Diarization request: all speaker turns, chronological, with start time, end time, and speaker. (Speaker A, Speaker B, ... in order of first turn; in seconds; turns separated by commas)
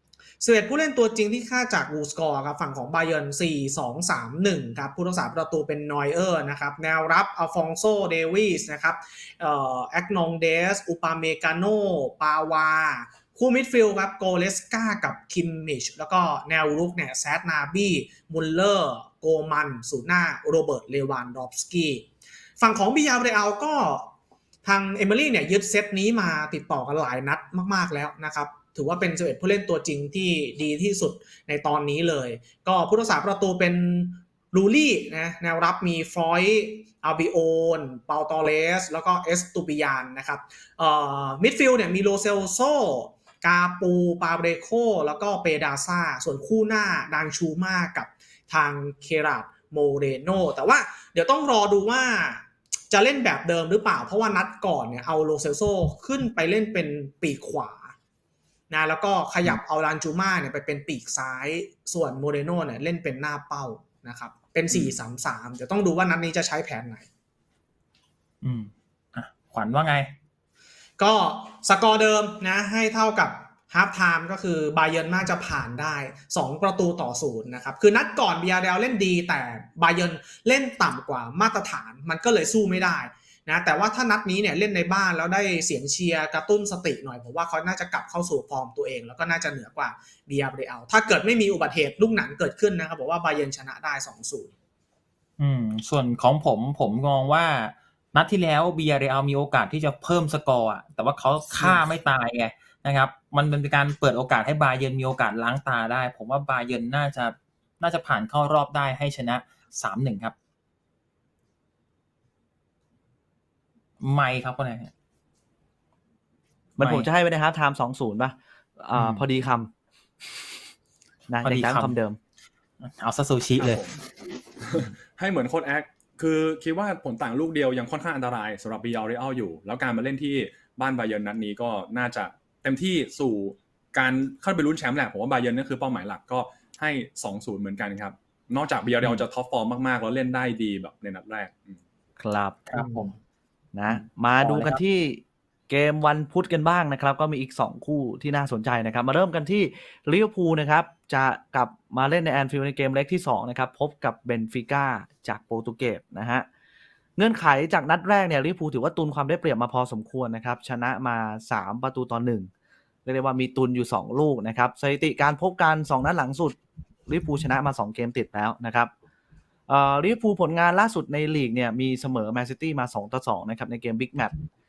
Speaker A: 0.4-22.1, Speaker A: 22.6-24.1, Speaker A: 24.6-57.9, Speaker A: 58.7-67.1, Speaker B: 64.7-65.0, Speaker C: 68.4-70.1, Speaker A: 71.0-94.5, Speaker C: 95.4-110.3, Speaker A: 101.6-101.9, Speaker C: 114.0-114.9, Speaker D: 116.8-119.7, Speaker C: 116.8-117.1, Speaker C: 118.9-119.2, Speaker D: 121.3-122.2, Speaker C: 121.4-122.0, Speaker C: 122.8-123.8, Speaker B: 123.6-124.0, Speaker B: 124.6-141.8, Speaker D: 142.2-142.7, Speaker C: 142.7-143.1, Speaker D: 143.7-156.5, Speaker C: 143.9-144.8, Speaker D: 157.2-162.5, Speaker D: 163.1-168.9, Speaker D: 169.7-174.3